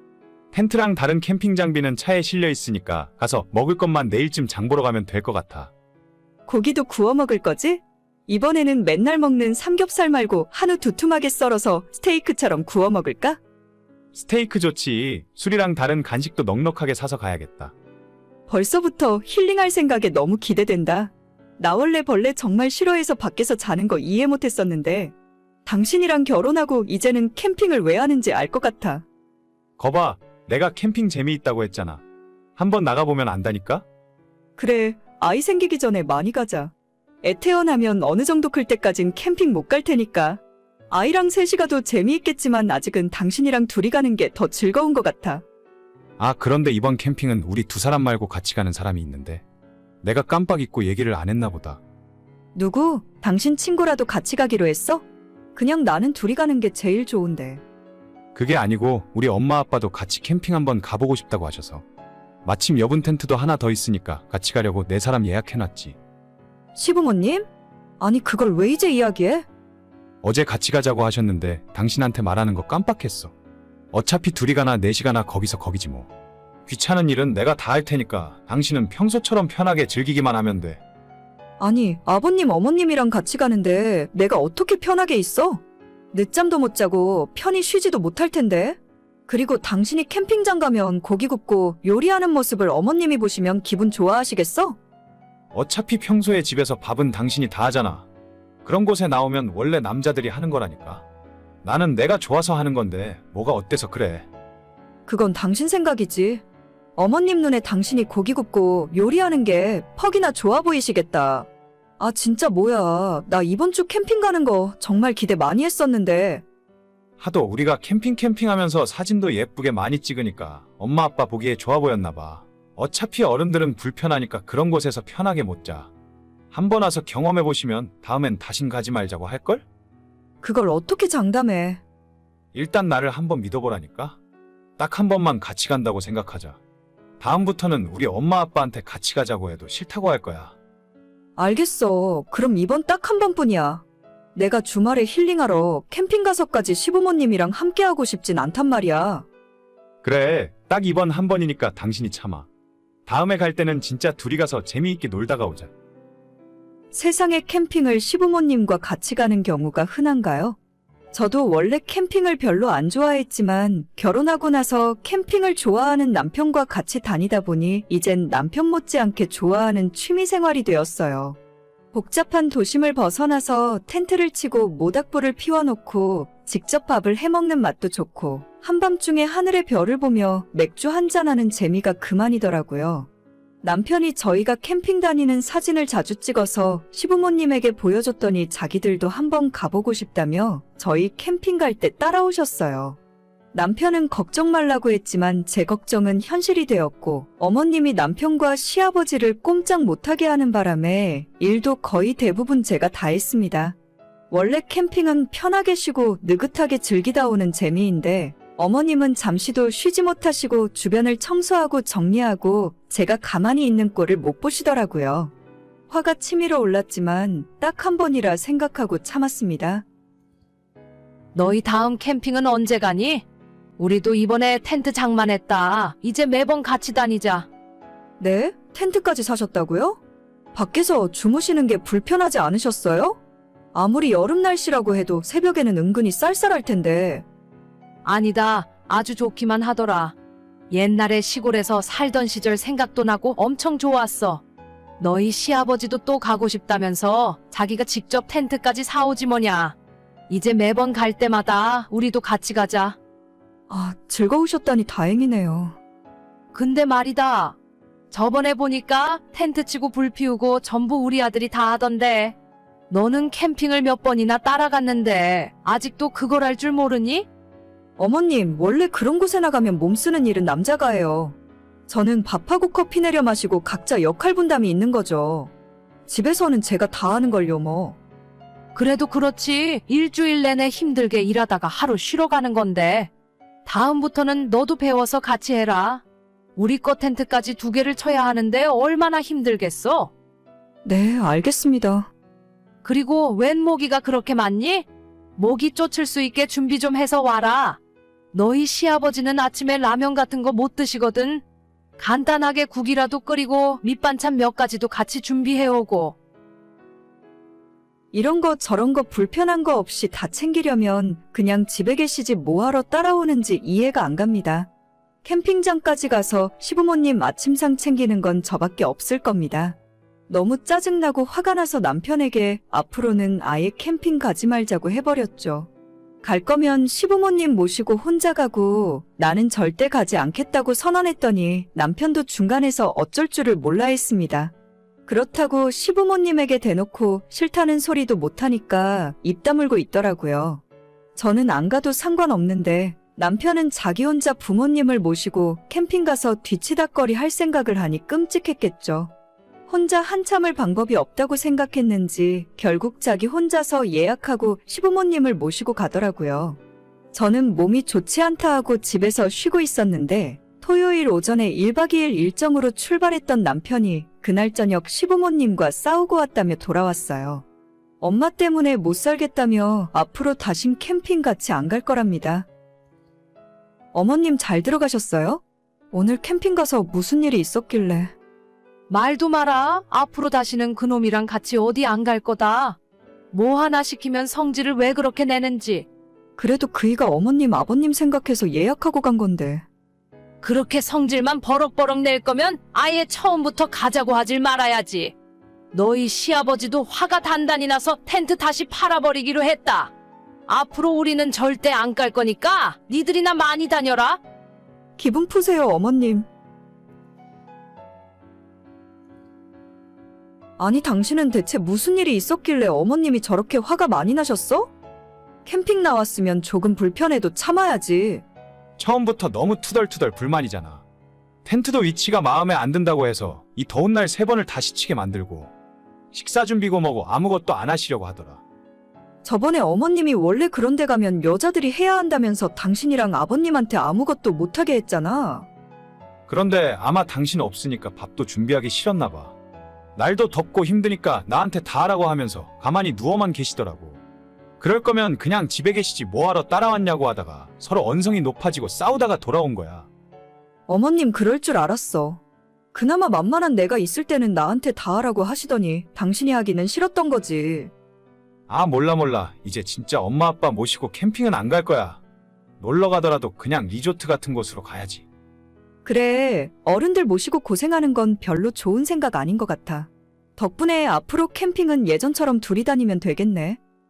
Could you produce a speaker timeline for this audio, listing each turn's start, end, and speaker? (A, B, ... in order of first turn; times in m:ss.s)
0:00.5-0:05.7 A
0:06.5-0:13.4 B
0:14.1-0:17.7 A
0:18.5-0:25.1 B
0:25.6-0:29.0 B
0:29.8-0:32.0 A
0:32.6-0:33.8 A
0:34.6-0:36.7 B
0:37.2-0:45.4 B
0:46.2-0:49.4 A
0:50.0-0:51.8 A
0:52.5-0:55.0 B
0:55.5-0:57.6 B
0:58.3-1:01.8 A
1:02.4-1:06.0 A
1:06.7-1:07.5 B
1:08.0-1:09.4 B
1:10.2-1:13.3 A
1:13.9-1:16.1 A
1:16.7-1:20.8 A
1:21.6-1:25.6 B
1:26.1-1:34.8 B
1:35.5-1:38.1 A
1:38.6-1:41.0 A
1:41.6-1:44.3 A
1:45.0-1:46.4 B
1:47.0-1:51.5 B
1:52.0-1:56.4 B
1:57.2-2:05.9 A
2:06.5-2:09.6 A
2:10.4-2:11.8 B
2:12.5-2:14.2 A
2:14.8-2:16.6 A
2:17.2-2:20.5 A
2:21.4-2:23.8 B
2:24.3-2:29.3 B
2:30.0-2:32.5 A
2:33.0-2:35.7 A
2:36.9-2:40.6 B
2:41.1-2:51.4 B
2:51.9-3:03.1 B
3:03.6-3:13.0 B
3:13.5-3:23.8 B
3:24.3-3:35.3 B
3:35.9-3:39.8 B
3:41.3-3:43.2 C
3:43.8-3:47.5 C
3:48.2-3:50.0 B
3:50.5-3:53.2 B
3:53.7-3:57.2 B
3:58.0-4:00.1 C
4:00.7-4:04.4 C
4:05.0-4:09.8 C
4:10.3-4:13.0 C
4:13.7-4:15.8 B
4:16.5-4:17.6 C
4:18.1-4:22.4 C
4:22.9-4:27.3 C
4:28.0-4:31.4 B
4:31.9-4:35.5 B
4:36.1-4:38.0 B
4:38.7-4:43.1 C
4:43.6-4:46.0 C
4:46.6-4:50.1 C
4:50.8-4:52.1 B
4:52.8-4:57.8 C
4:58.3-5:01.4 C
5:02.0-5:06.2 C
5:08.1-5:14.7 B
5:15.2-5:19.8 B
5:20.3-5:25.7 B
5:26.2-5:34.5 B
5:35.0-5:40.6 B
5:41.2-5:49.1 B
5:49.7-5:56.6 B
5:57.1-6:07.4 B
6:08.0-6:12.5 B
6:13.9-6:18.1 B
6:18.9-6:22.8 C
6:23.3-6:25.9 C
6:26.4-6:29.6 B
6:30.4-6:35.1 C
6:35.7-6:39.9 C
6:40.5-6:44.2 C
6:45.0-6:46.3 B
6:50.6-6:54.7 B
6:55.4-6:58.2 B
6:58.8-7:00.8 A
7:01.4-7:05.5 A
7:06.1-7:08.4 A
7:09.2-7:15.5 B
7:16.3-7:19.3 A
7:20.0-7:24.0 A
7:24.6-7:29.9 A
7:30.7-7:32.2 B
7:32.7-7:37.7 B
7:38.5-7:42.0 A
7:42.6-7:45.0 A
7:45.8-7:53.6 B